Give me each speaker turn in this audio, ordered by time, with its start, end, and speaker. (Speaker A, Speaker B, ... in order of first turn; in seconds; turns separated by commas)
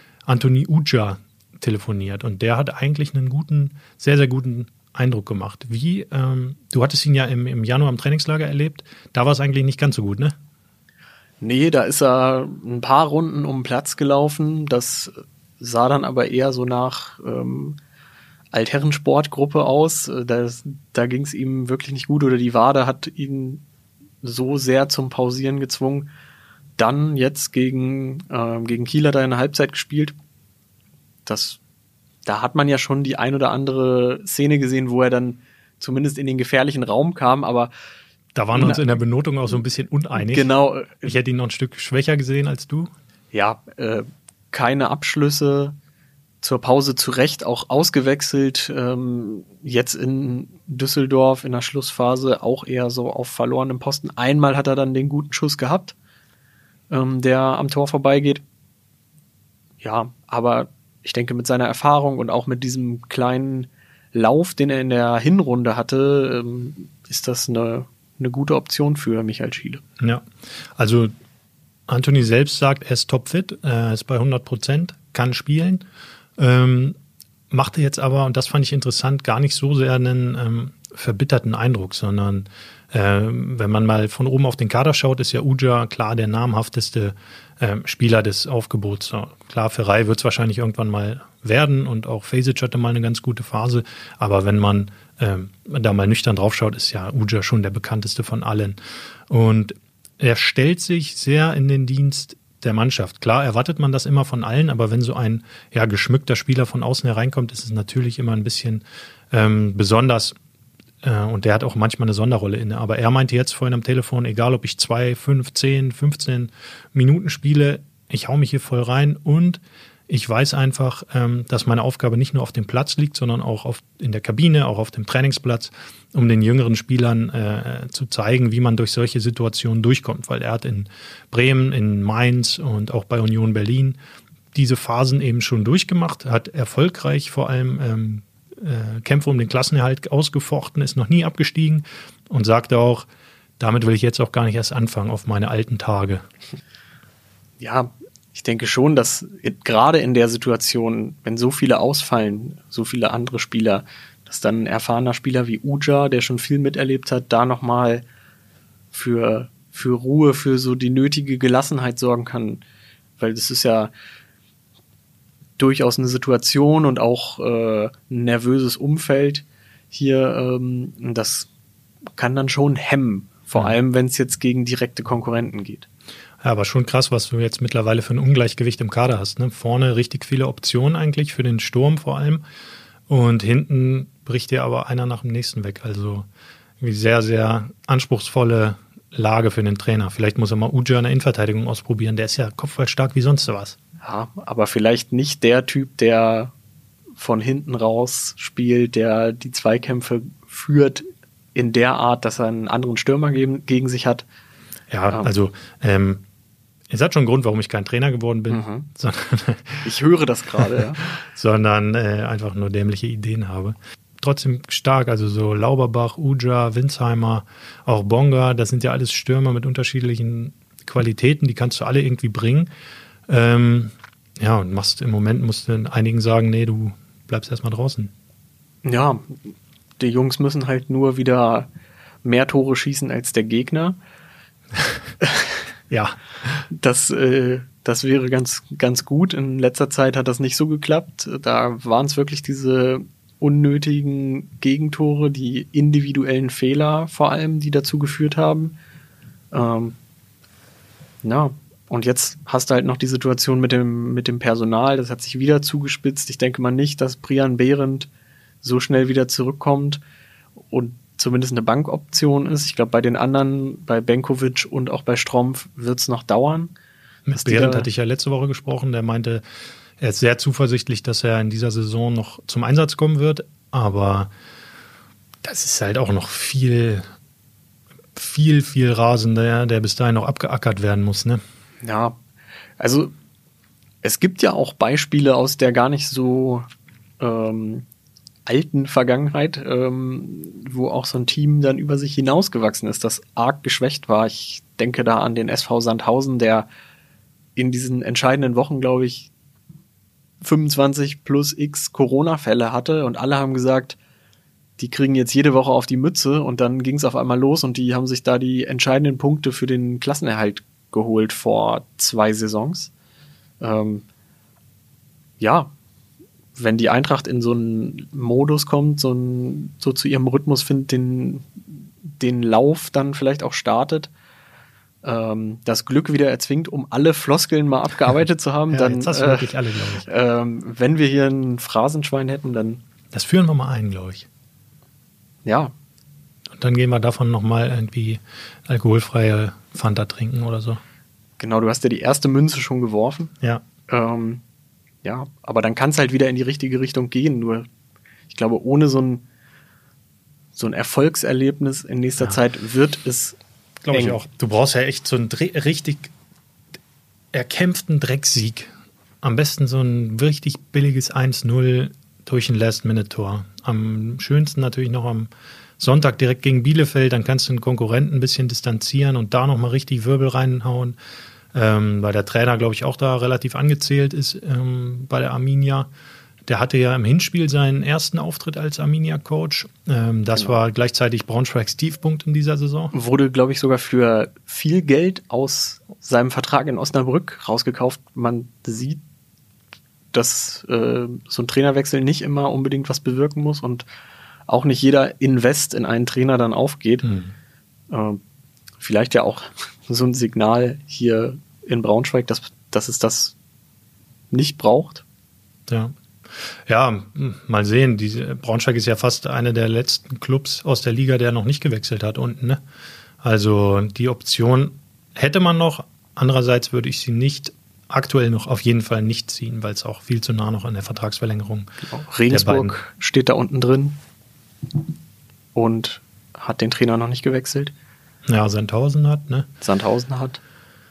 Speaker A: 0.3-10.3, Speaker B: 11.4-17.8, Speaker B: 18.5-23.6, Speaker B: 24.2-26.1, Speaker B: 26.8-30.2, Speaker B: 31.2-31.6, Speaker B: 32.2-37.7, Speaker A: 38.4-40.5, Speaker B: 38.5-39.0, Speaker B: 40.1-41.1, Speaker A: 41.0-42.9, Speaker B: 43.3-45.8, Speaker B: 46.4-56.0, Speaker B: 56.9-58.4, Speaker B: 59.8-69.8, Speaker A: 70.8-71.1, Speaker A: 71.9-75.8, Speaker A: 76.4-77.0, Speaker A: 77.5-98.8, Speaker A: 99.3-110.4, Speaker A: 111.0-134.0, Speaker A: 134.5-143.1, Speaker A: 143.6-146.2, Speaker B: 147.6-158.1, Speaker B: 158.9-162.6, Speaker B: 163.2-163.9, Speaker B: 165.6-171.5, Speaker B: 172.2-175.9, Speaker A: 176.4-182.4, Speaker A: 183.1-186.3, Speaker A: 186.8-193.8, Speaker B: 194.0-196.5, Speaker B: 197.2-204.3, Speaker A: 204.9-206.2, Speaker A: 206.9-209.9, Speaker B: 208.5-208.9, Speaker B: 209.8-211.1, Speaker A: 211.2-222.7, Speaker A: 223.3-228.1, Speaker B: 228.8-231.7, Speaker B: 232.2-234.0, Speaker B: 235.2-235.6, Speaker A: 235.9-236.2, Speaker B: 236.7-248.8, Speaker B: 249.5-250.0, Speaker B: 251.2-258.1, Speaker B: 258.6-260.0, Speaker B: 260.6-266.7, Speaker A: 267.3-269.4, Speaker B: 267.4-267.9, Speaker A: 270.0-274.3, Speaker A: 275.4-277.1, Speaker A: 278.1-281.4, Speaker B: 281.8-282.2, Speaker B: 282.8-283.1, Speaker B: 284.0-286.6, Speaker B: 287.2-287.9, Speaker B: 288.5-296.7, Speaker B: 297.6-299.3, Speaker B: 300.4-304.0, Speaker B: 304.8-312.9, Speaker B: 313.6-314.1, Speaker B: 315.4-315.7, Speaker B: 316.6-324.1, Speaker B: 325.0-332.8, Speaker A: 328.7-330.1, Speaker A: 333.1-334.3, Speaker B: 335.4-335.7, Speaker A: 336.5-340.8, Speaker B: 341.4-343.3, Speaker B: 343.9-344.4, Speaker B: 345.0-347.7, Speaker B: 348.3-349.2, Speaker B: 350.5-353.4, Speaker A: 353.8-356.1, Speaker B: 353.9-354.2, Speaker A: 357.3-358.7, Speaker A: 359.2-371.0, Speaker A: 371.5-375.9, Speaker A: 376.5-382.9, Speaker B: 382.9-389.0, Speaker B: 390.1-393.9, Speaker B: 394.5-397.1, Speaker A: 397.0-397.3, Speaker B: 397.9-398.2, Speaker B: 398.8-403.4, Speaker B: 404.3-405.0, Speaker A: 405.7-405.9, Speaker A: 406.7-412.6, Speaker A: 413.2-421.7, Speaker B: 421.9-424.0, Speaker A: 422.3-422.8, Speaker B: 425.5-427.7, Speaker A: 428.3-429.5, Speaker B: 429.6-430.4